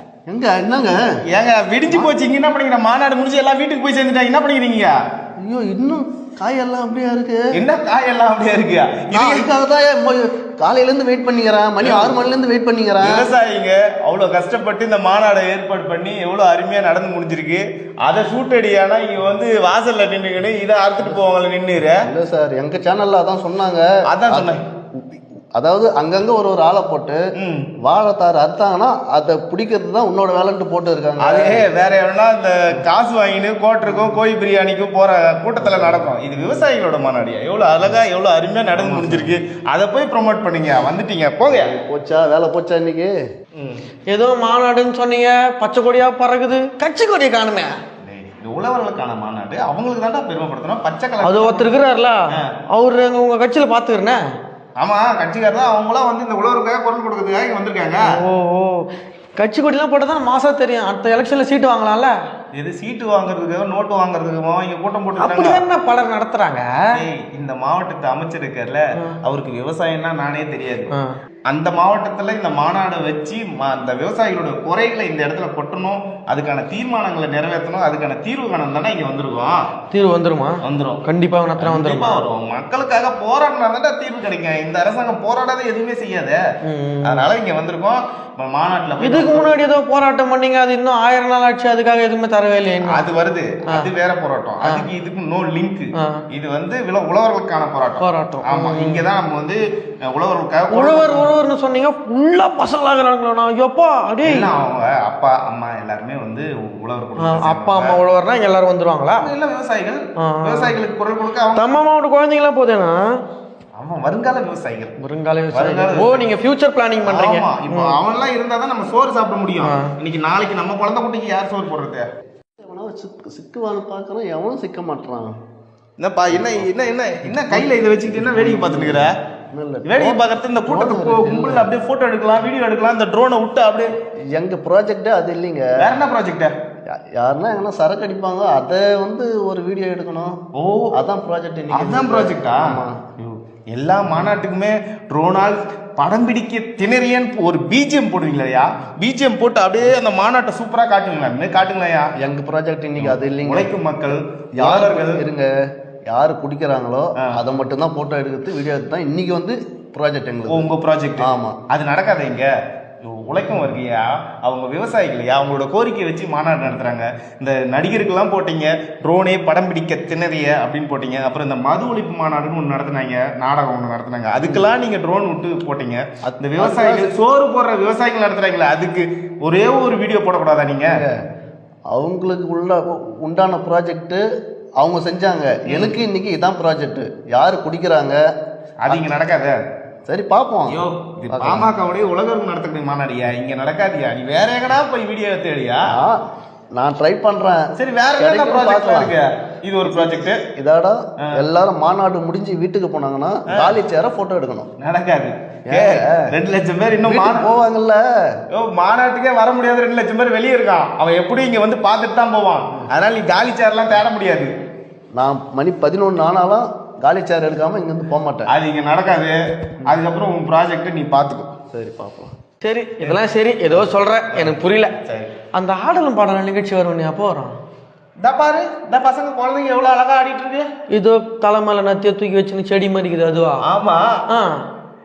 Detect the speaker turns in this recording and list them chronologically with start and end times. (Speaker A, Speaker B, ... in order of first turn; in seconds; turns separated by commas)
Speaker A: 0.3-1.0, Speaker B: 1.3-5.0, Speaker A: 5.4-7.4, Speaker B: 7.5-9.5, Speaker A: 9.1-13.3, Speaker B: 11.8-12.2, Speaker B: 13.0-22.1, Speaker A: 22.0-27.2, Speaker B: 24.1-24.6, Speaker B: 27.4-27.7, Speaker A: 27.8-31.7, Speaker B: 31.2-41.7, Speaker A: 35.6-36.1, Speaker A: 41.5-43.2, Speaker B: 43.5-43.8, Speaker C: 44.1-47.7, Speaker B: 48.0-51.7, Speaker C: 51.2-54.2, Speaker B: 54.8-58.0, Speaker C: 58.1-58.8, Speaker C: 59.4-62.1, Speaker B: 62.5-65.6, Speaker C: 65.2-66.8, Speaker B: 66.9-70.9, Speaker B: 71.5-79.6, Speaker C: 79.9-82.2, Speaker B: 80.6-81.0, Speaker B: 81.6-86.4, Speaker C: 86.7-87.3, Speaker B: 87.0-89.5, Speaker C: 89.0-93.1, Speaker B: 92.8-99.6, Speaker C: 96.0-96.2, Speaker C: 98.0-99.0, Speaker B: 100.1-101.3, Speaker C: 100.7-104.5, Speaker B: 104.2-108.0, Speaker C: 107.2-109.3, Speaker B: 109.2-111.7, Speaker C: 110.2-110.8, Speaker C: 111.5-113.0, Speaker B: 113.8-115.0, Speaker C: 115.0-118.0, Speaker B: 115.5-116.3, Speaker B: 117.0-122.1, Speaker C: 119.6-119.9, Speaker A: 122.6-125.3, Speaker B: 126.0-129.1, Speaker A: 126.3-126.7, Speaker A: 127.2-131.7, Speaker B: 129.9-133.9, Speaker A: 134.3-135.7, Speaker B: 135.8-136.5, Speaker A: 136.9-140.4, Speaker B: 140.6-140.9, Speaker A: 140.9-143.0, Speaker B: 141.7-152.1, Speaker A: 152.2-153.7, Speaker B: 153.0-155.2, Speaker A: 154.6-155.5, Speaker A: 156.1-161.6, Speaker B: 160.5-162.5, Speaker B: 163.0-180.9, Speaker A: 174.4-174.7, Speaker A: 176.2-177.1, Speaker A: 180.8-181.2, Speaker A: 181.9-184.2, Speaker A: 184.8-188.2, Speaker B: 185.7-186.0, Speaker B: 188.8-189.6, Speaker A: 190.1-190.8, Speaker B: 190.7-195.9, Speaker A: 191.3-191.7, Speaker A: 195.9-196.2, Speaker A: 196.8-199.2, Speaker B: 197.8-200.4, Speaker A: 199.9-204.7, Speaker B: 204.8-207.5, Speaker A: 205.7-206.3, Speaker A: 207.0-208.0, Speaker B: 208.5-214.5, Speaker A: 215.2-218.5, Speaker B: 218.5-221.5, Speaker A: 221.7-222.3, Speaker C: 222.6-224.9, Speaker B: 223.7-225.3, Speaker C: 225.6-227.5, Speaker B: 228.2-230.7, Speaker C: 230.9-233.6, Speaker B: 233.6-234.1